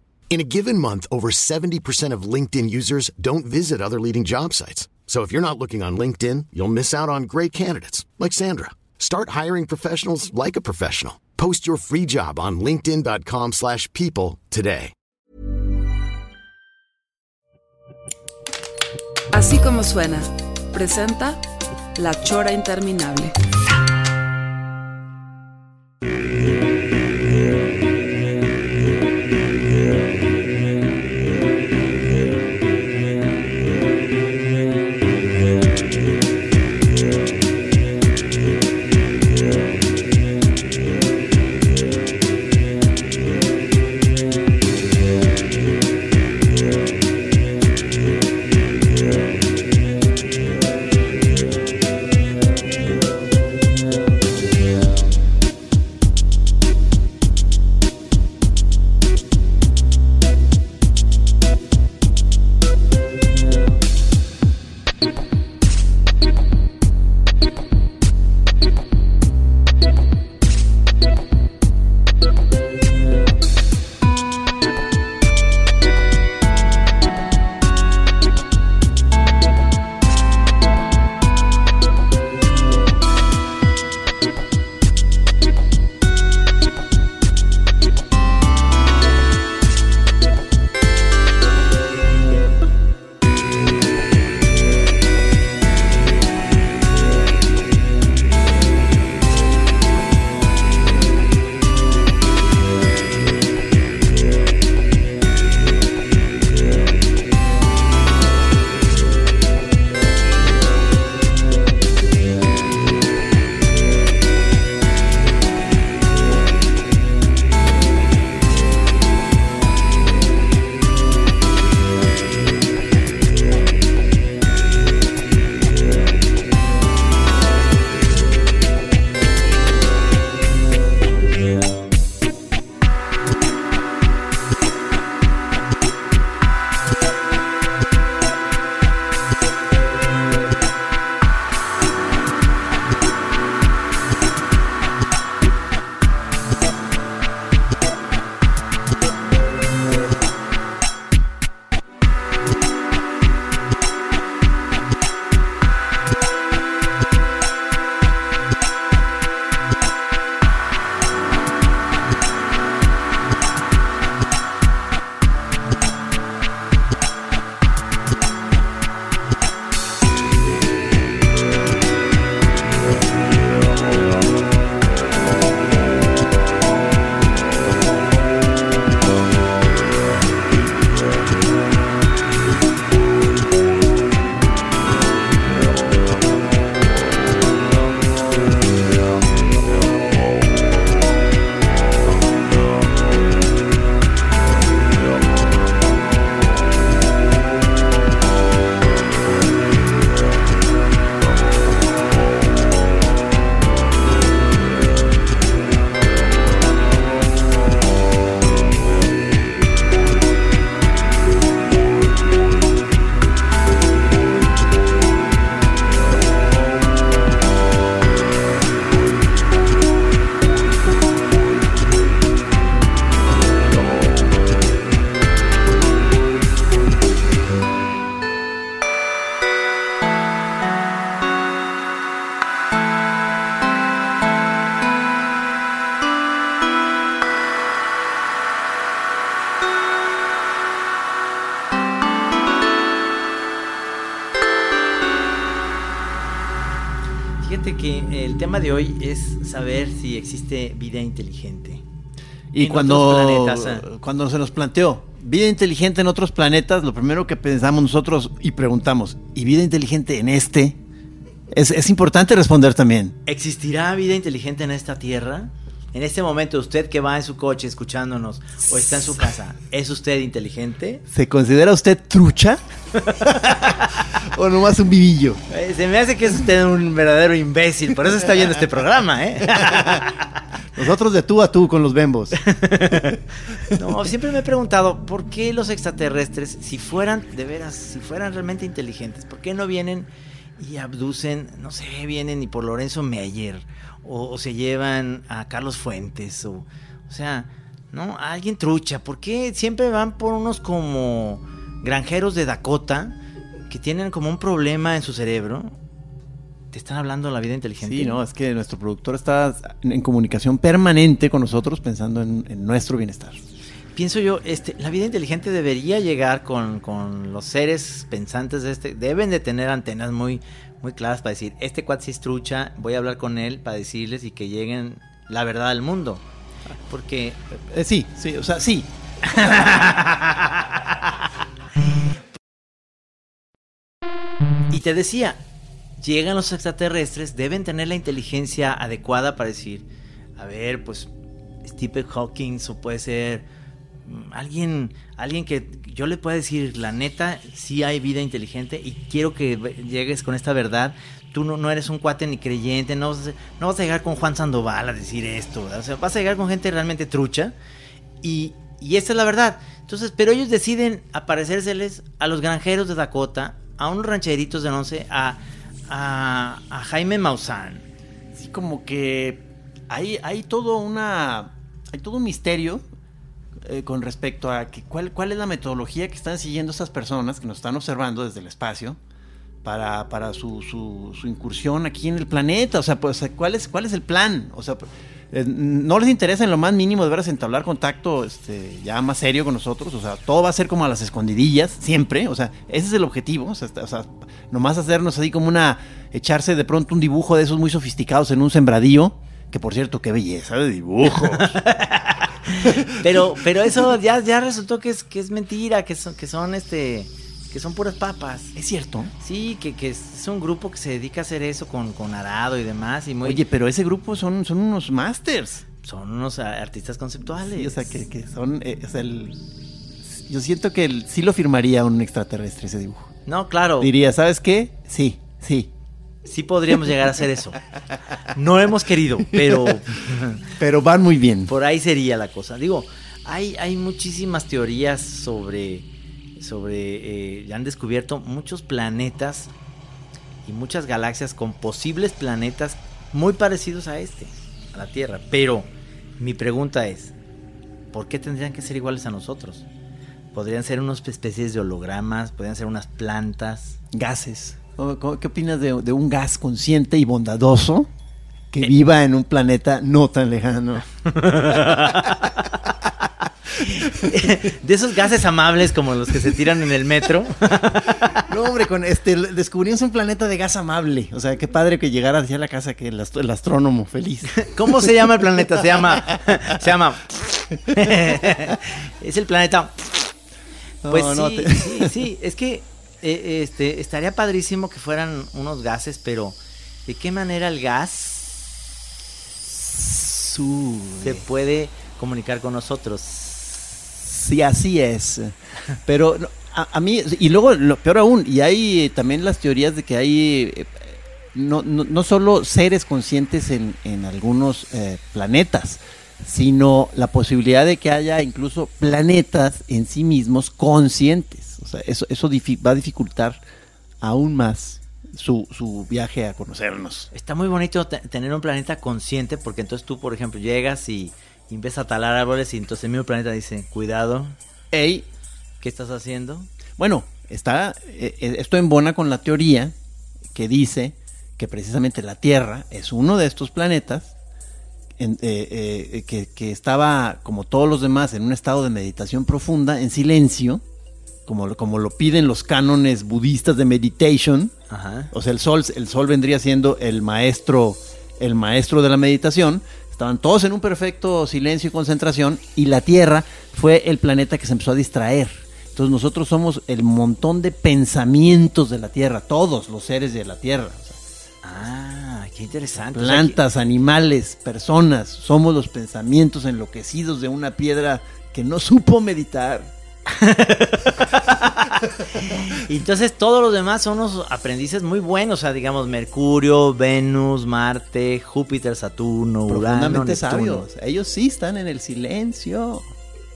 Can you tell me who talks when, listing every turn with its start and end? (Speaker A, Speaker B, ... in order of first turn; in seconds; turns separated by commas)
Speaker A: 0.3-14.9, Speaker B: 19.3-21.4, Speaker B: 22.0-23.4, Speaker C: 247.4-251.8, Speaker D: 252.5-260.8, Speaker C: 252.6-253.9, Speaker D: 261.5-263.2, Speaker C: 263.3-271.0, Speaker D: 268.7-269.3, Speaker D: 271.1-272.6, Speaker D: 273.2-275.4, Speaker C: 275.5-280.2, Speaker D: 279.6-280.1, Speaker D: 280.7-282.4, Speaker C: 282.4-303.2, Speaker C: 303.7-305.8, Speaker C: 306.7-308.2, Speaker D: 307.8-313.4, Speaker C: 313.9-326.2, Speaker C: 326.9-327.4, Speaker D: 327.6-329.6, Speaker C: 329.3-330.7, Speaker C: 334.7-335.4, Speaker C: 336.0-339.9, Speaker C: 340.4-341.1, Speaker C: 341.6-343.5, Speaker C: 344.1-357.6, Speaker C: 358.2-367.9, Speaker D: 368.3-372.9, Speaker D: 373.6-379.0, Speaker D: 379.6-401.6, Speaker C: 401.3-408.6, Speaker D: 402.6-403.4, Speaker D: 408.6-409.1, Speaker C: 409.2-413.4, Speaker D: 413.2-415.6, Speaker C: 415.8-418.0, Speaker D: 417.4-419.4, Speaker D: 420.0-423.1, Speaker C: 423.3-423.9, Speaker D: 423.8-425.7, Speaker C: 426.2-427.6, Speaker C: 428.2-430.4, Speaker D: 429.3-430.0, Speaker D: 430.5-431.5, Speaker C: 431.5-439.5, Speaker C: 440.5-445.7, Speaker C: 446.2-447.1, Speaker C: 447.9-449.7, Speaker C: 450.3-453.8, Speaker D: 453.9-457.9, Speaker D: 458.5-462.1, Speaker C: 461.1-462.5, Speaker C: 463.6-468.2, Speaker D: 463.7-464.1, Speaker D: 468.1-474.9, Speaker C: 474.3-480.1, Speaker D: 475.6-476.4, Speaker D: 477.7-478.5, Speaker D: 480.8-482.0, Speaker C: 480.9-488.5, Speaker D: 489.5-491.2, Speaker C: 491.0-493.8, Speaker D: 494.0-513.4, Speaker D: 514.0-517.1, Speaker C: 517.1-524.4, Speaker D: 524.7-525.1, Speaker C: 525.6-526.5, Speaker D: 526.8-529.8, Speaker D: 530.3-534.1, Speaker D: 535.0-540.6, Speaker D: 541.3-544.5, Speaker C: 544.7-545.1, Speaker D: 545.1-561.0, Speaker C: 561.4-563.4, Speaker D: 562.9-569.7, Speaker C: 570.1-580.6, Speaker D: 579.5-582.9